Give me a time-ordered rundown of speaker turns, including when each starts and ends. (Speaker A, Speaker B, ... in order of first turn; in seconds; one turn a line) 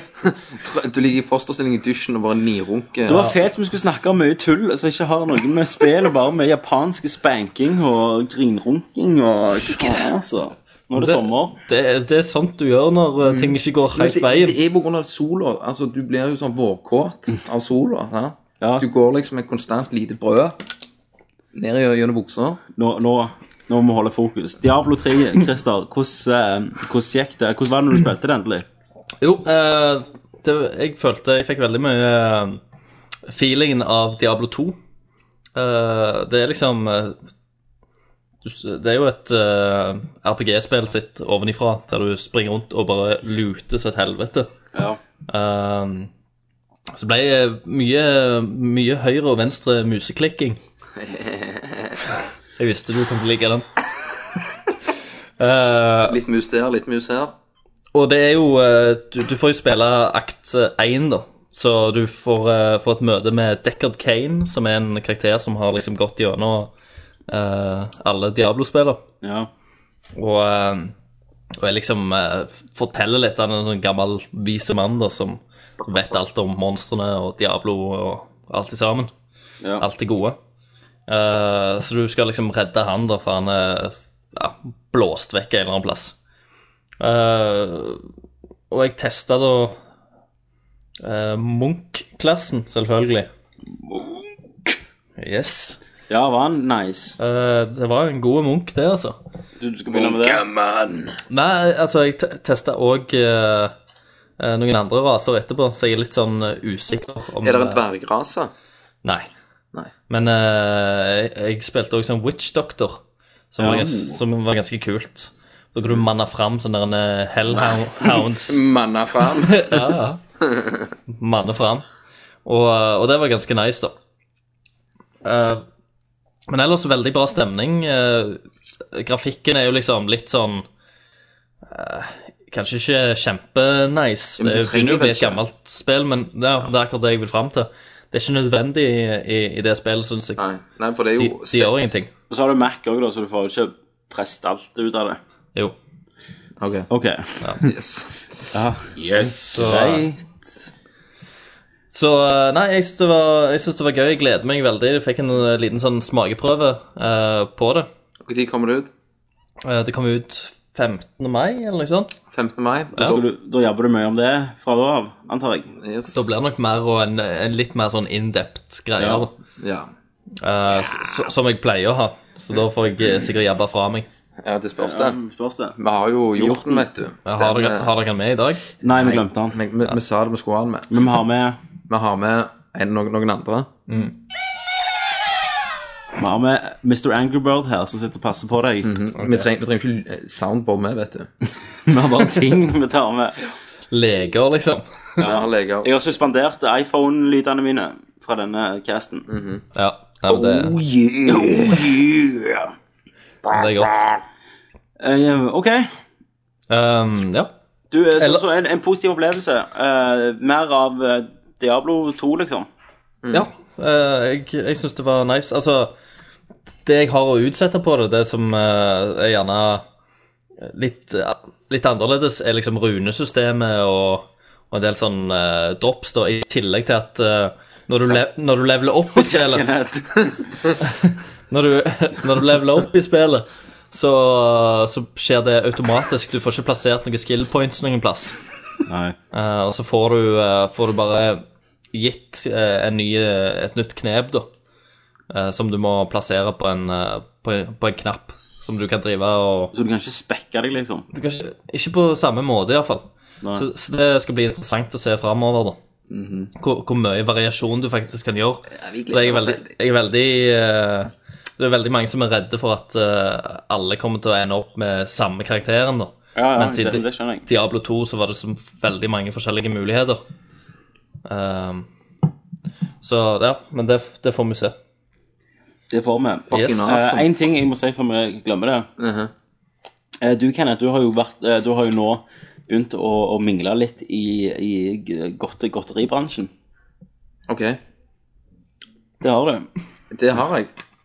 Speaker A: 0.2-3.3
Speaker B: 3.0-11.6
Speaker A: 9.7-10.0
Speaker C: 10.9-14.6
Speaker A: 13.2-20.6
Speaker B: 18.6-18.9
Speaker A: 21.5-22.6
Speaker B: 22.8-28.7
Speaker C: 29.2-32.6
Speaker C: 33.3-34.8
Speaker C: 35.5-37.1
Speaker C: 38.4-44.5
Speaker B: 44.7-45.0
Speaker C: 45.3-46.1
Speaker C: 46.9-50.6
Speaker A: 51.0-52.1
Speaker C: 52.6-53.6
Speaker C: 55.4-56.2
Speaker A: 56.0-57.3
Speaker C: 57.9-66.7
Speaker C: 67.3-69.0
Speaker B: 69.2-69.5
Speaker C: 70.1-70.9
Speaker C: 71.6-79.1
Speaker C: 79.8-80.4
Speaker C: 81.1-86.1
Speaker C: 87.0-88.0
Speaker C: 88.7-89.8
Speaker C: 91.0-93.3
Speaker C: 95.2-95.8
Speaker B: 96.1-97.2
Speaker C: 97.2-99.2
Speaker B: 99.6-100.4
Speaker A: 99.9-101.2
Speaker C: 101.3-103.7
Speaker C: 104.4-107.8
Speaker A: 107.4-108.5
Speaker C: 110.1-118.6
Speaker B: 113.6-114.2
Speaker A: 117.5-119.8
Speaker C: 119.4-120.2
Speaker A: 120.4-120.9
Speaker C: 121.1-121.8
Speaker C: 122.4-123.9
Speaker C: 125.2-125.6
Speaker C: 126.5-130.7
Speaker C: 131.7-140.4
Speaker A: 134.4-135.4
Speaker A: 140.4-142.0
Speaker C: 141.2-142.1
Speaker B: 142.3-145.2
Speaker A: 146.6-146.9
Speaker B: 146.9-147.7
Speaker A: 147.6-148.2
Speaker B: 148.5-149.0
Speaker A: 148.9-149.7
Speaker C: 149.1-150.1
Speaker B: 149.5-150.5
Speaker C: 151.9-157.9
Speaker A: 158.2-158.9
Speaker C: 159.6-162.1
Speaker A: 162.3-163.2
Speaker B: 163.0-165.7
Speaker A: 165.8-166.3
Speaker C: 166.1-169.3
Speaker B: 169.0-169.2
Speaker A: 169.6-169.9
Speaker C: 170.4-174.1
Speaker A: 174.4-175.2
Speaker B: 174.8-175.8
Speaker A: 175.8-177.9
Speaker B: 176.4-176.8
Speaker C: 177.2-178.6
Speaker B: 178.8-179.6
Speaker A: 178.9-180.9
Speaker B: 180.9-181.6
Speaker A: 181.9-183.7
Speaker C: 183.9-184.1
Speaker B: 186.2-188.9
Speaker A: 188.8-191.3
Speaker C: 189.2-189.4
Speaker B: 191.8-193.5
Speaker C: 193.9-195.2
Speaker A: 195.2-195.9
Speaker B: 195.2-199.3
Speaker A: 199.3-199.6
Speaker C: 199.7-200.8
Speaker A: 200.3-202.6
Speaker B: 201.3-202.1
Speaker C: 203.5-204.1
Speaker B: 205.0-205.9
Speaker C: 206.7-207.5
Speaker B: 207.9-212.7
Speaker A: 213.2-213.5
Speaker C: 213.3-215.9
Speaker C: 216.8-219.8
Speaker C: 220.6-229.6
Speaker B: 229.1-230.6
Speaker C: 230.8-238.3
Speaker B: 238.8-239.2
Speaker C: 239.3-244.5
Speaker C: 245.3-249.7
Speaker B: 249.7-251.1
Speaker C: 251.1-255.8
Speaker A: 256.1-256.5
Speaker C: 256.6-270.2
Speaker A: 258.7-259.7
Speaker B: 266.3-267.4
Speaker C: 271.2-271.9
Speaker C: 273.0-274.7
Speaker B: 275.9-278.9
Speaker A: 276.5-277.4
Speaker C: 276.5-276.9
Speaker A: 279.0-279.3
Speaker B: 280.2-286.5
Speaker A: 287.5-287.8
Speaker B: 289.2-289.7
Speaker A: 290.1-290.7